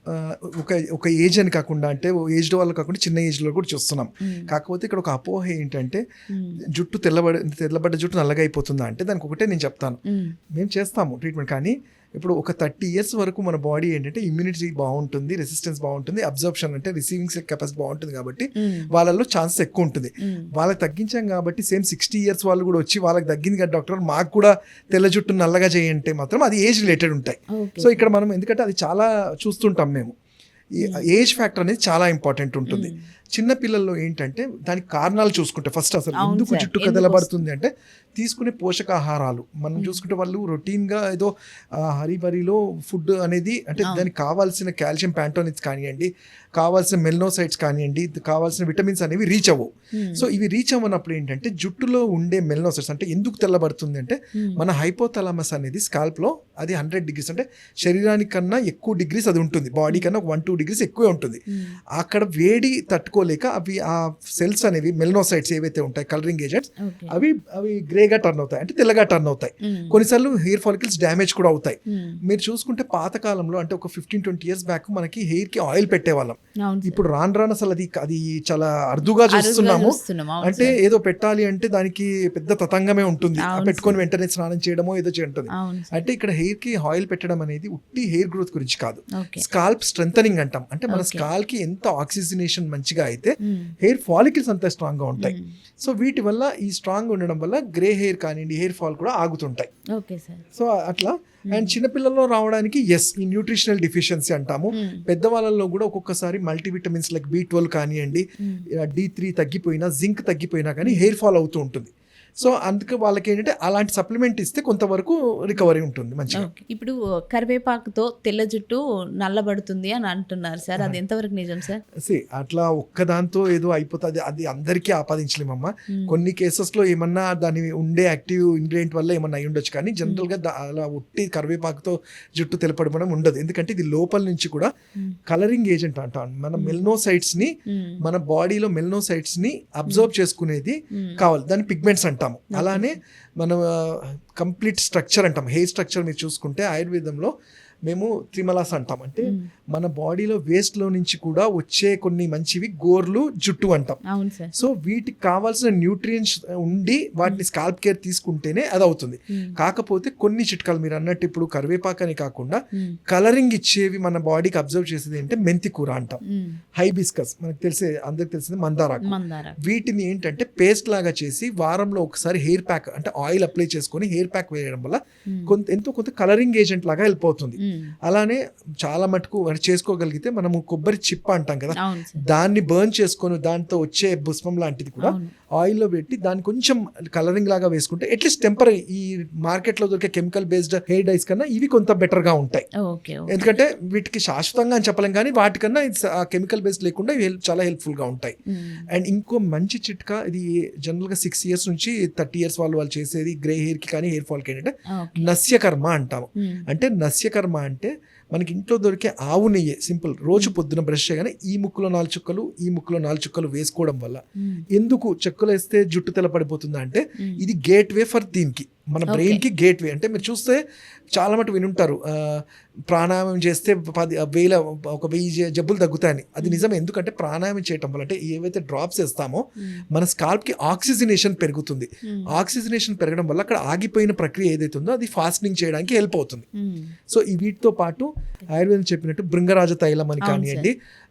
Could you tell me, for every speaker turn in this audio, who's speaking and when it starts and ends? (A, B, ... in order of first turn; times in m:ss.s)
0:00.1-0:06.0 A
0:04.2-0:04.5 B
0:06.3-0:06.6 B
0:06.7-0:10.0 A
0:10.1-0:10.3 B
0:10.6-0:30.1 A
0:18.6-0:18.9 B
0:20.2-0:20.5 B
0:27.6-0:28.1 B
0:30.8-1:01.4 A
0:32.7-0:33.0 B
0:36.2-0:37.3 B
0:39.8-0:40.0 B
0:43.8-0:44.1 B
0:49.9-0:50.2 B
0:54.4-0:54.6 B
1:02.0-1:39.7 A
1:06.8-1:07.1 B
1:09.6-1:10.0 B
1:11.9-1:12.2 B
1:16.6-1:17.0 B
1:19.3-1:20.8 B
1:23.4-1:24.0 B
1:25.5-1:26.0 B
1:29.2-1:29.4 B
1:30.9-1:31.2 B
1:33.4-1:33.7 B
1:35.2-1:35.5 B
1:39.9-1:40.4 B
1:40.5-1:48.2 A
1:41.5-1:41.8 B
1:44.7-1:45.0 B
1:48.8-1:56.5 A
1:50.8-1:51.1 B
1:56.3-2:01.8 B
2:02.0-2:14.7 A
2:05.9-2:06.2 B
2:15.3-2:27.3 A
2:17.7-2:18.0 B
2:21.0-2:21.2 B
2:22.5-2:22.9 B
2:27.9-2:34.0 A
2:34.1-2:34.5 B
2:34.5-2:46.2 A
2:46.2-2:46.6 B
2:46.8-3:12.6 A
2:49.0-2:49.6 B
2:55.3-2:55.6 B
2:57.6-2:57.9 B
3:01.8-3:02.2 B
3:05.0-3:05.3 B
3:12.8-3:13.4 B
3:13.3-3:18.4 A
3:18.5-3:18.9 B
3:18.9-3:34.2 A
3:25.0-3:25.3 B
3:26.4-3:26.6 B
3:34.7-3:40.6 A
3:39.1-3:39.4 B
3:41.2-3:56.4 A
3:52.1-3:52.3 B
3:56.6-3:56.9 B
3:57.1-4:00.7 A
4:00.2-4:00.7 B